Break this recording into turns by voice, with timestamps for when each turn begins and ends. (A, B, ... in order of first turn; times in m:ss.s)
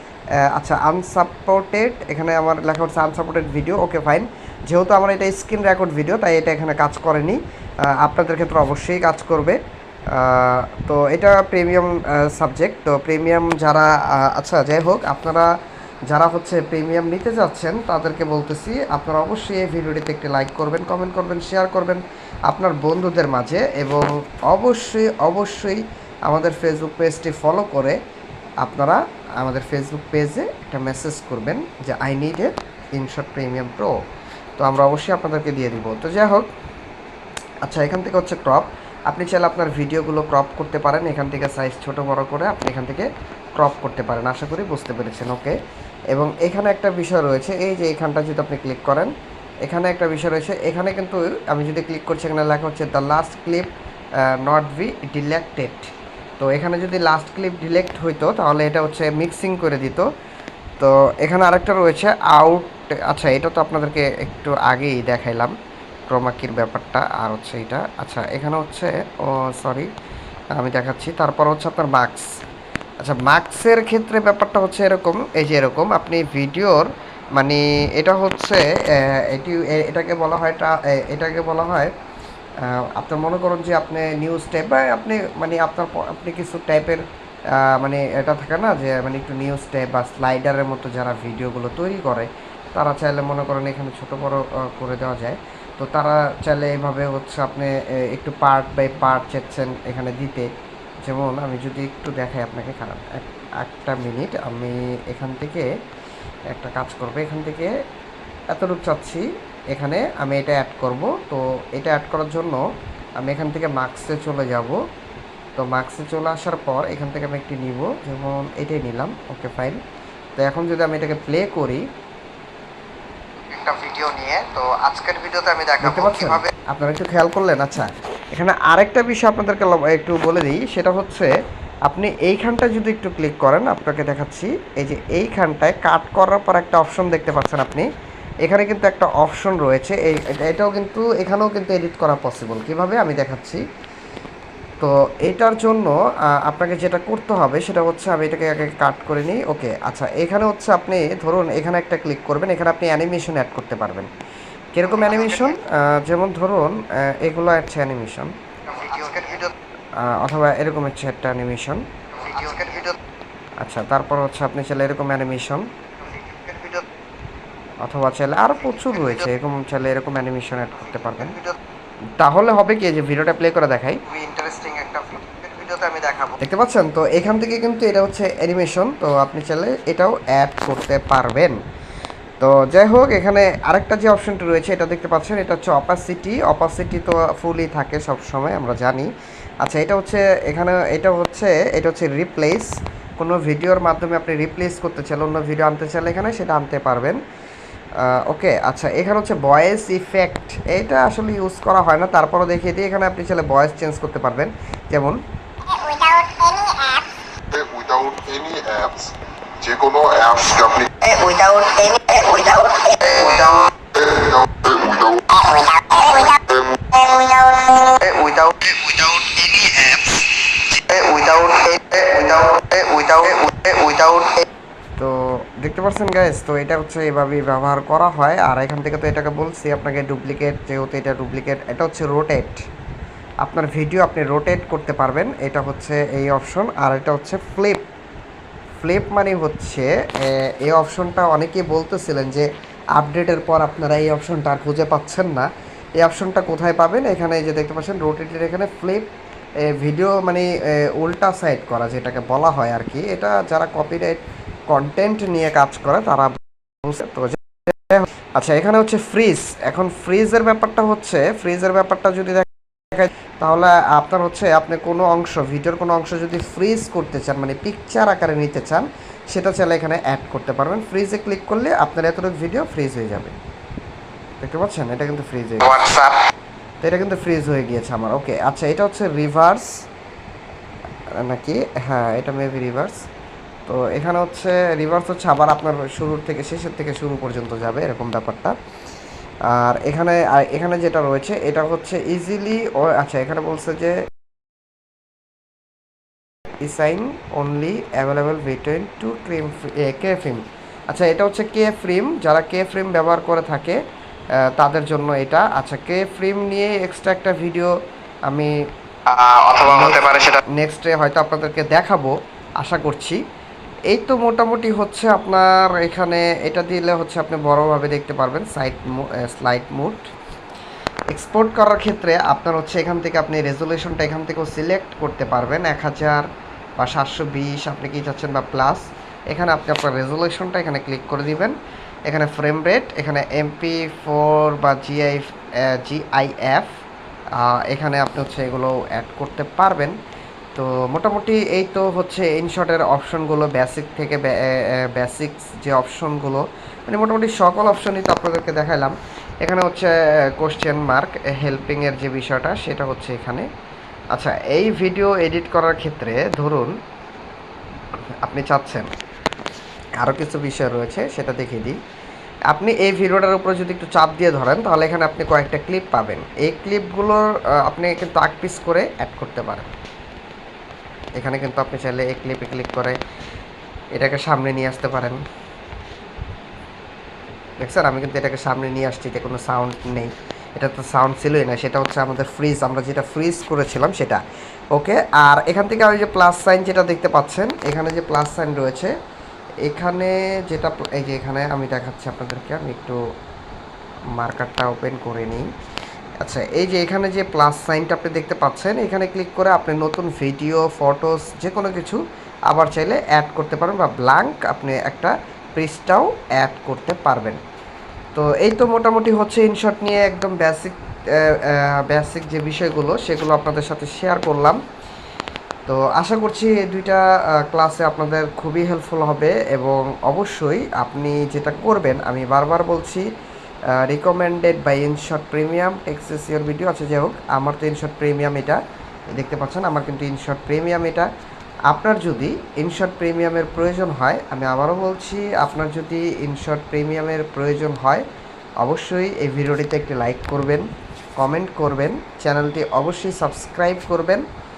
0:00.4-0:09.6 A
0:10.1-0:15.5 A
0:16.1-0:28.0 A
0:28.6-0:34.0 A
0:34.6-0:36.5 A
0:37.6-0:45.6 A
0:46.1-0:49.1 A
0:49.6-1:00.1 A
1:00.8-1:05.5 A
1:06.1-1:09.9 A
1:10.6-1:12.4 A
1:13.0-1:16.9 A
1:17.4-1:21.9 A
1:22.6-1:40.5 A
1:41.1-1:45.7 A
1:46.5-1:47.7 A
1:48.5-1:52.6 A
1:53.2-1:54.8 A
1:55.6-1:59.8 A
2:00.4-2:01.9 A
2:03.4-2:06.5 B
2:05.8-2:11.3 A
2:11.9-2:17.9 A
2:18.4-2:23.6 A
2:24.8-2:34.1 A
2:34.8-2:38.3 A
2:35.1-2:35.5 B
2:38.7-2:39.5 B
2:40.0-2:41.8 A
2:42.1-2:43.0 B
2:43.6-2:45.7 A
2:46.0-2:46.9 B
2:47.8-2:51.4 A
2:48.8-2:49.2 B
2:51.2-2:51.6 B
2:52.2-2:54.0 A
2:54.1-2:56.4 B
2:56.4-3:01.6 A
3:02.4-3:09.1 A
3:09.6-3:17.2 A
3:18.0-3:25.2 A
3:25.8-3:27.0 B
3:27.5-3:30.9 C
3:31.0-3:33.7 B
3:34.0-3:35.5 C
3:35.5-3:44.4 B
3:45.0-3:52.6 A
3:53.4-3:57.8 A
3:58.8-4:05.5 A
4:06.0-4:33.4 A
4:34.4-4:35.8 A
4:35.6-4:36.2 B
4:36.8-4:39.8 A
4:41.2-4:43.0 A
4:43.7-4:48.6 A
4:49.5-4:54.0 A
4:56.6-5:03.8 A
5:04.4-5:07.7 A
5:08.3-5:08.6 A
5:09.1-5:10.4 B
5:09.6-5:13.2 A
5:13.9-5:20.1 A
5:21.1-5:26.3 A
5:26.8-5:31.6 A
5:32.1-5:36.7 A
5:37.4-5:40.0 A
5:40.6-5:53.5 A
5:54.1-5:56.7 A
5:58.2-5:58.9 A
6:00.0-6:01.8 A
6:02.5-6:09.7 A
6:11.2-6:13.0 A
6:14.0-6:15.2 A
6:17.6-6:24.2 A
6:24.7-6:28.9 A
6:29.6-6:33.0 A
6:34.2-6:35.5 A
6:36.2-6:47.4 A
6:48.1-6:54.6 A
6:55.7-7:03.1 A
7:03.7-7:08.6 A
7:09.1-7:11.1 A
7:11.7-7:18.0 A
7:18.6-7:20.7 A
7:21.2-7:24.2 A